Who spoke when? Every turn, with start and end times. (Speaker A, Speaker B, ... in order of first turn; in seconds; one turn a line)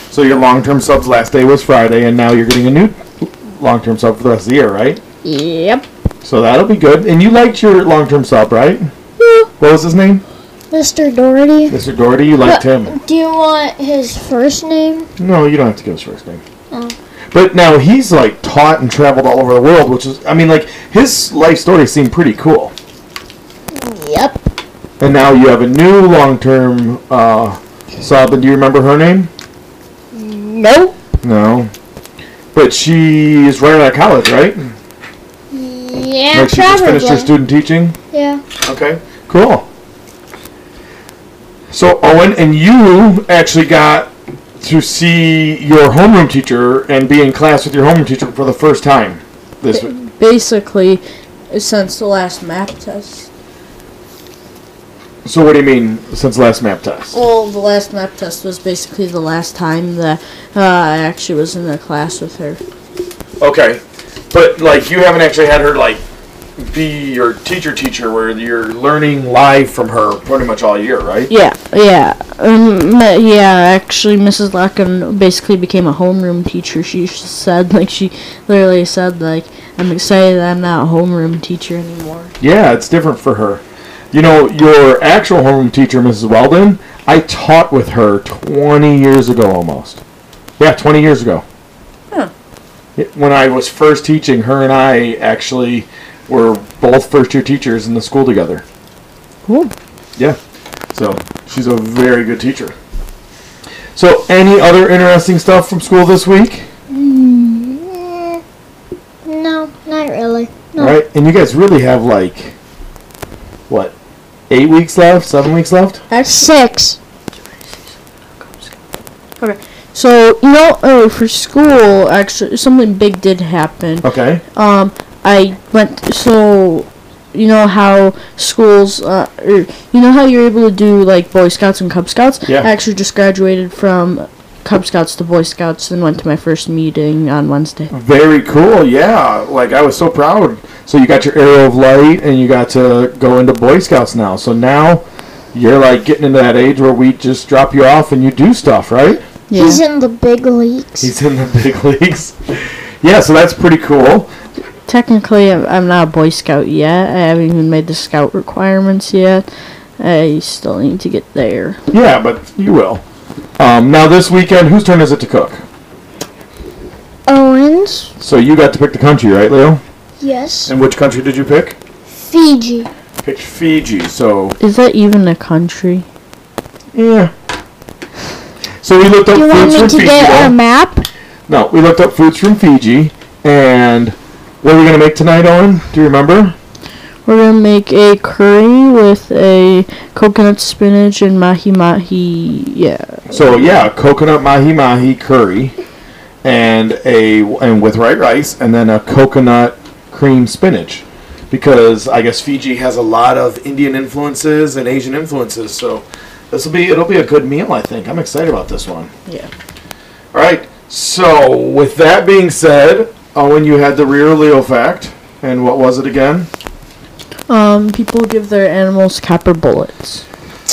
Speaker A: 0.1-5.0
Speaker B: 5.2-5.8
Speaker A: 6.2-8.9
Speaker B: 9.2-9.5
Speaker A: 9.6-10.2
Speaker B: 10.7-11.8
Speaker A: 11.7-12.9
Speaker B: 12.4-15.1
Speaker A: 15.2-16.4
Speaker A: 17.3-22.7
Speaker B: 23.7-24.4
Speaker A: 25.0-29.3
Speaker B: 30.1-30.9
Speaker A: 31.2-31.7
Speaker A: 32.5-34.7
Speaker B: 35.5-37.3
Speaker A: 36.3-38.0
Speaker B: 38.1-38.4
Speaker A: 38.6-39.7
Speaker A: 41.7-49.9
Speaker C: 49.7-53.3
Speaker A: 55.2-57.1
Speaker C: 57.1-62.6
Speaker A: 63.4-63.8
Speaker A: 64.3-66.0
Speaker A: 66.6-71.3
Speaker C: 71.3-82.3
Speaker A: 82.4-90.0
Speaker A: 90.6-91.5
Speaker A: 93.0-98.7
Speaker C: 99.5-99.7
Speaker A: 100.9-102.8
Speaker A: 104.0-106.7
Speaker B: 107.0-108.4
Speaker B: 109.2-111.0
Speaker A: 110.8-112.6
Speaker A: 113.7-113.9
Speaker A: 114.5-116.0
Speaker C: 116.1-116.5
Speaker B: 116.3-117.0
Speaker C: 117.9-118.7
Speaker C: 119.4-137.9
Speaker A: 124.0-124.4
Speaker A: 137.9-149.2
Speaker C: 149.5-149.8
Speaker B: 149.5-151.1
Speaker A: 151.0-154.3
Speaker C: 154.9-159.5
Speaker C: 160.0-161.8
Speaker A: 161.9-163.0
Speaker A: 163.6-165.6
Speaker B: 167.3-168.1
Speaker A: 168.2-169.8
Speaker B: 170.2-170.7
Speaker A: 170.7-171.8
Speaker B: 172.2-172.9
Speaker A: 173.2-174.6
Speaker C: 174.6-176.1
Speaker A: 176.9-177.3
Speaker A: 178.8-180.6
Speaker B: 179.3-181.1
Speaker A: 181.5-186.6
Speaker C: 187.3-193.9
Speaker A: 193.3-195.7
Speaker A: 196.4-209.1
Speaker A: 210.3-216.5
Speaker C: 217.5-220.2